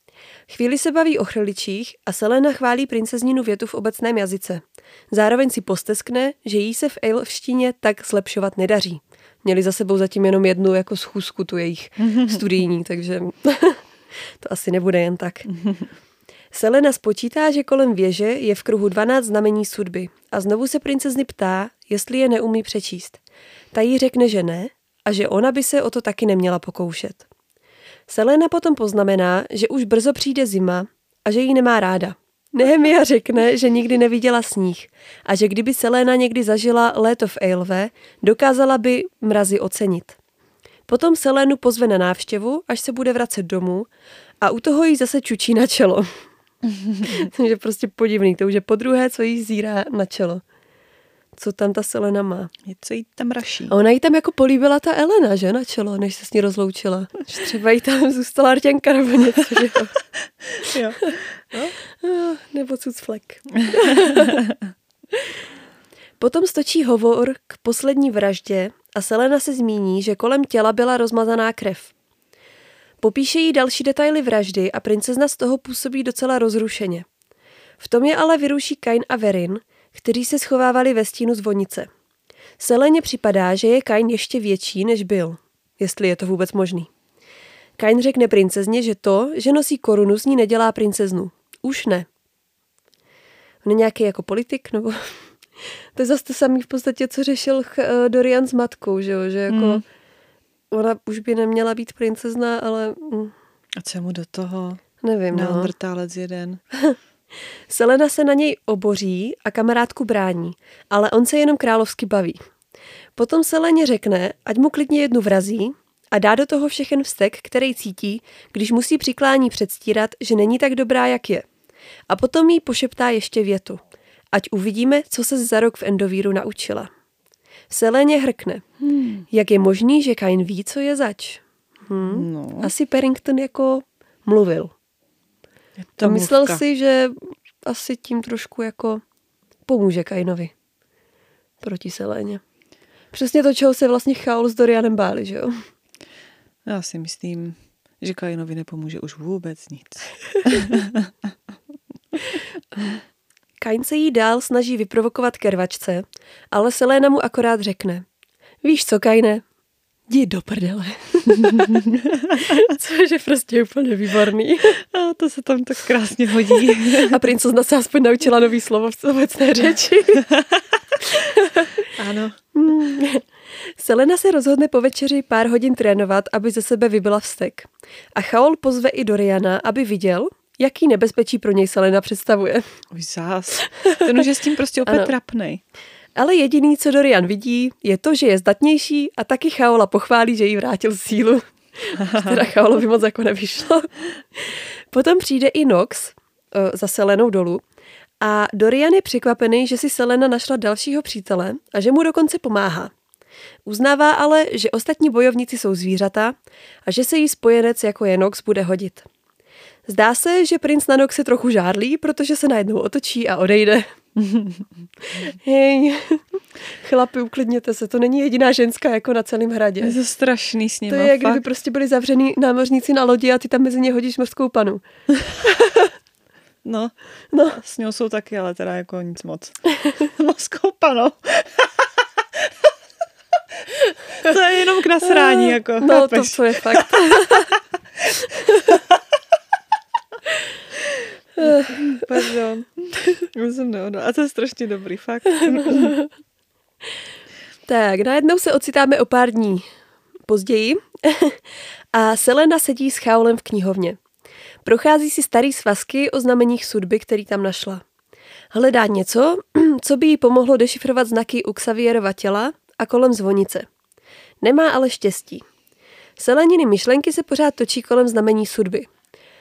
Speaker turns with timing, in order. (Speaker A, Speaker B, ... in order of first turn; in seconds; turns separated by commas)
Speaker A: 0.5-13.8, Speaker B: 12.0-12.6, Speaker A: 14.4-15.5, Speaker B: 15.5-15.9, Speaker A: 16.5-23.2, Speaker A: 23.7-27.2, Speaker A: 28.1-40.2, Speaker A: 40.9-43.9, Speaker A: 44.4-46.1, Speaker B: 46.7-47.2, Speaker A: 47.0-50.4, Speaker A: 51.4-52.5, Speaker B: 52.6-53.7, Speaker A: 53.7-60.0, Speaker B: 60.5-61.7, Speaker A: 60.7-61.2, Speaker A: 61.9-64.4, Speaker B: 63.6-64.6, Speaker A: 66.2-71.9, Speaker A: 73.0-77.0, Speaker A: 77.8-81.9, Speaker A: 82.6-86.9, Speaker A: 87.8-92.1, Speaker A: 93.6-95.2, Speaker A: 95.9-99.8, Speaker B: 99.5-99.8, Speaker A: 100.7-103.3, Speaker B: 103.8-106.6, Speaker A: 105.0-105.7, Speaker A: 107.7-112.4, Speaker A: 113.2-121.5, Speaker A: 122.1-123.8, Speaker A: 124.3-126.9, Speaker A: 127.7-128.6, Speaker B: 128.8-129.2, Speaker A: 129.3-134.7, Speaker B: 132.0-132.7, Speaker B: 135.8-136.6, Speaker A: 136.0-139.0, Speaker A: 139.7-140.5, Speaker A: 141.6-142.4, Speaker A: 143.1-145.6, Speaker B: 146.7-151.1, Speaker A: 153.6-158.1, Speaker A: 158.6-159.4, Speaker A: 160.1-164.8, Speaker B: 161.4-162.6, Speaker B: 164.8-167.2, Speaker A: 166.8-170.3, Speaker B: 170.3-170.6, Speaker A: 171.0-171.9, Speaker B: 171.9-172.4, Speaker A: 172.5-173.2, Speaker A: 173.8-182.6, Speaker B: 182.9-185.6, Speaker A: 183.7-184.2, Speaker A: 184.8-185.1, Speaker A: 186.2-197.6, Speaker B: 192.0-192.5, Speaker A: 198.2-202.9, Speaker A: 203.7-209.1, Speaker A: 209.9-213.9, Speaker B: 214.2-214.7, Speaker A: 215.1-219.9, Speaker B: 219.8-221.4, Speaker A: 220.9-224.8, Speaker B: 226.6-226.9, Speaker A: 227.3-227.6, Speaker B: 227.5-231.8, Speaker B: 234.1-237.5, Speaker A: 235.1-237.5, Speaker A: 238.2-238.7, Speaker B: 238.7-239.0, Speaker A: 241.4-242.0, Speaker B: 241.4-245.9, Speaker A: 245.5-246.1, Speaker A: 247.7-249.7, Speaker A: 250.3-251.4, Speaker A: 251.9-254.0, Speaker A: 254.6-257.8, Speaker A: 258.5-263.7, Speaker A: 264.4-265.4, Speaker A: 266.2-268.9